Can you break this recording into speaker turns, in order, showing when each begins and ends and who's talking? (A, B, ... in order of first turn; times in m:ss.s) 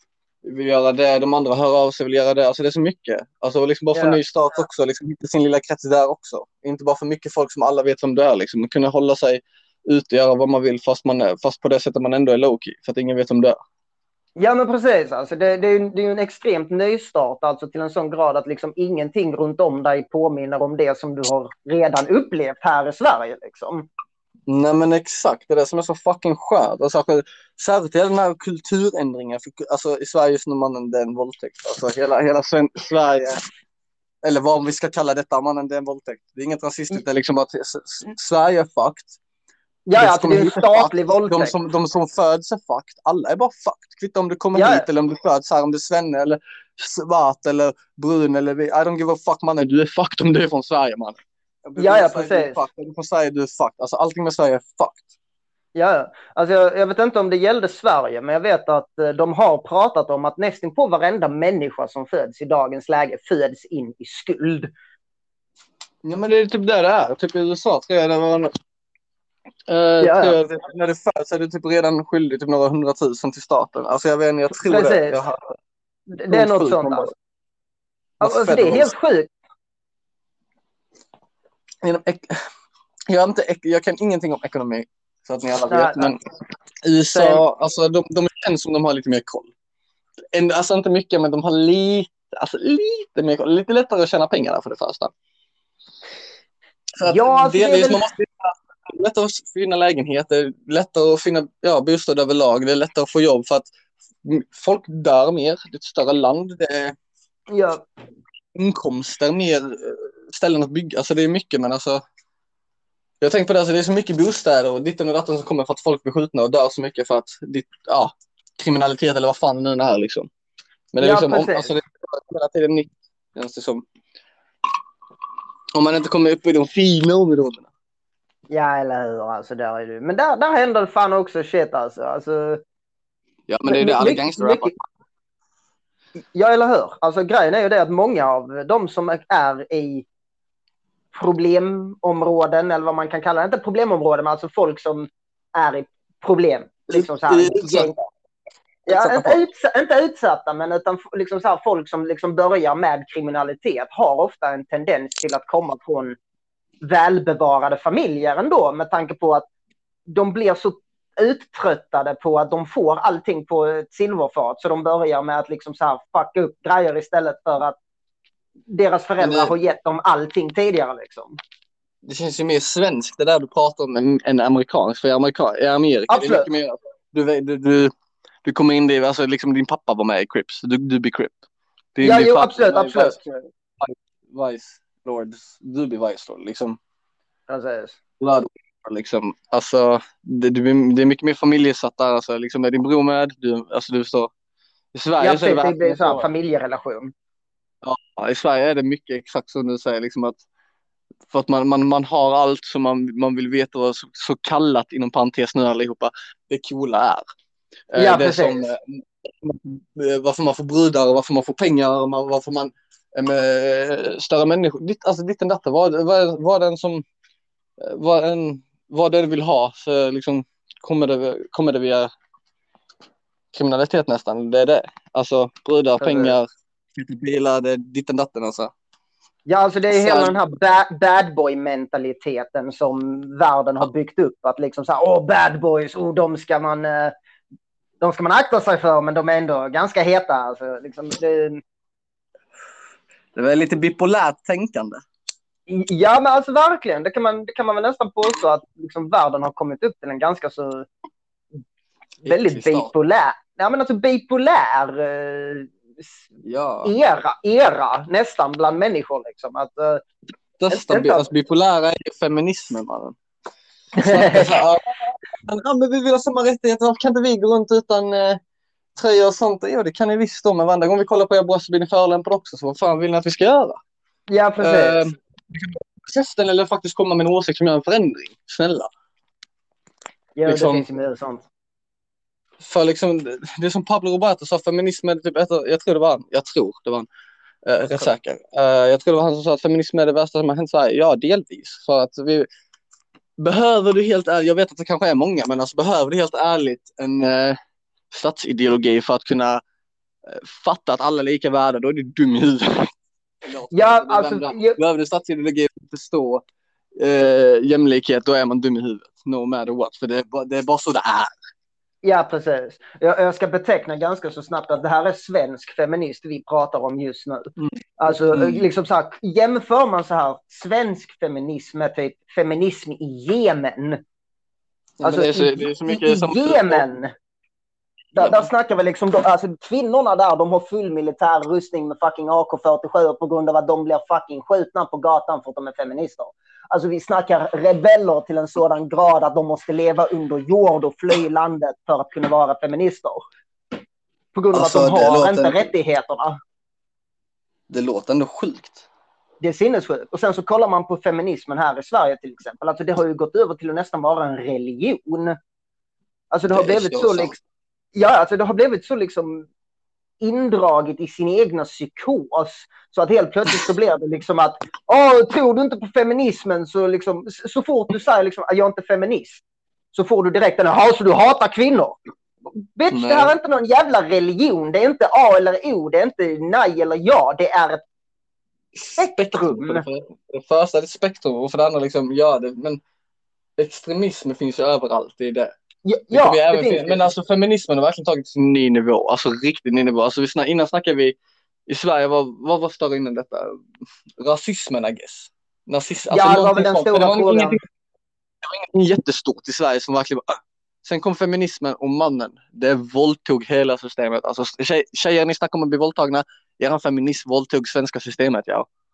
0:00.4-0:13.6 A
0:03.9-0:04.2 B
0:14.4-0:23.9 B
0:24.5-0:33.4 A
0:34.2-0:39.1 A
0:39.9-0:41.5 B
0:40.0-0:55.1 A
0:44.5-0:44.9 B
0:51.8-0:52.6 B
0:55.7-1:04.7 B
1:06.0-1:08.5 A
1:09.7-1:15.5 A
1:10.0-1:10.4 B
1:14.5-1:15.2 B
1:16.1-1:17.1 B
1:16.3-1:17.1 A
1:18.2-1:18.9 A
1:18.2-1:19.3 B
1:21.8-1:22.4 A
1:23.1-1:26.2 A
1:25.7-1:26.1 B
1:26.8-1:29.5 A
1:27.1-1:27.4 B
1:30.3-1:35.1 A
1:37.0-1:43.7 A
1:37.1-1:38.0 B
1:44.2-1:46.9 A
1:47.5-1:47.8 B
1:48.5-1:52.0 A
1:53.2-2:00.3 A
2:00.9-2:03.8 A
2:01.0-2:01.7 B
2:05.7-2:07.7 A
2:08.5-2:12.6 B
2:13.5-2:14.7 A
2:13.6-2:14.8 B
2:16.3-2:20.0 B
2:21.1-2:28.0 B
2:26.9-2:27.9 A
2:28.9-2:36.2 B
2:28.9-2:29.4 A
2:36.8-2:39.5 B
2:40.1-2:47.8 B
2:48.7-2:51.4 B
2:49.2-2:49.5 A
2:52.0-2:57.9 A
2:56.1-2:56.5 B
2:58.4-3:01.4 A
3:01.9-3:06.8 A
3:02.0-3:03.2 B
3:07.5-3:08.0 B
3:08.2-3:14.3 A
3:14.9-3:16.3 A
3:15.2-3:17.1 B
3:17.8-3:20.4 A
3:21.3-3:27.2 A
3:27.9-3:37.0 A
3:27.9-3:28.7 B
3:37.8-3:42.1 A
3:43.5-3:46.4 A
3:46.0-3:46.4 B
3:47.0-3:48.7 A
3:49.4-3:57.1 B
3:49.9-3:50.4 A
3:58.0-4:01.6 B
4:03.3-4:05.0 A
4:05.7-4:10.9 B
4:12.2-4:12.9 A
4:12.2-4:16.3 B
4:16.4-4:16.9 A
4:16.8-4:20.0 B
4:20.6-4:23.2 A
4:20.7-4:21.3 B
4:24.0-4:24.5 B
4:24.0-4:28.4 A
4:29.0-4:33.8 A
4:34.3-4:35.0 B
4:34.6-4:38.9 A
4:40.4-4:41.4 B
4:40.4-4:40.8 A
4:42.6-4:47.1 A
4:47.6-4:52.5 A
4:53.4-4:57.6 A
4:58.1-4:59.6 A
5:00.2-5:02.9 A
5:03.4-5:06.4 A
5:03.7-5:04.8 B
5:07.0-5:11.3 A
5:12.0-5:17.5 B
5:18.0-5:24.0 B
5:18.3-5:18.6 A
5:25.0-5:26.8 A
5:25.0-5:27.1 B
5:28.1-5:43.2 B
5:28.2-5:28.5 A
5:44.3-5:46.4 B
5:44.5-5:45.6 A
5:47.7-5:48.8 A
5:49.4-5:55.4 B
5:56.3-5:57.4 B
5:56.5-5:57.3 A
5:57.9-5:59.5 B
6:00.2-6:09.4 B
6:09.9-6:12.0 B
6:12.5-6:17.8 B
6:12.9-6:13.4 A
6:18.7-6:22.8 A
6:19.0-6:19.8 B
6:23.6-6:25.5 A
6:25.8-6:27.0 B
6:26.1-6:33.6 A
6:34.2-6:37.6 A
6:36.1-6:37.6 B
6:38.4-6:48.7 A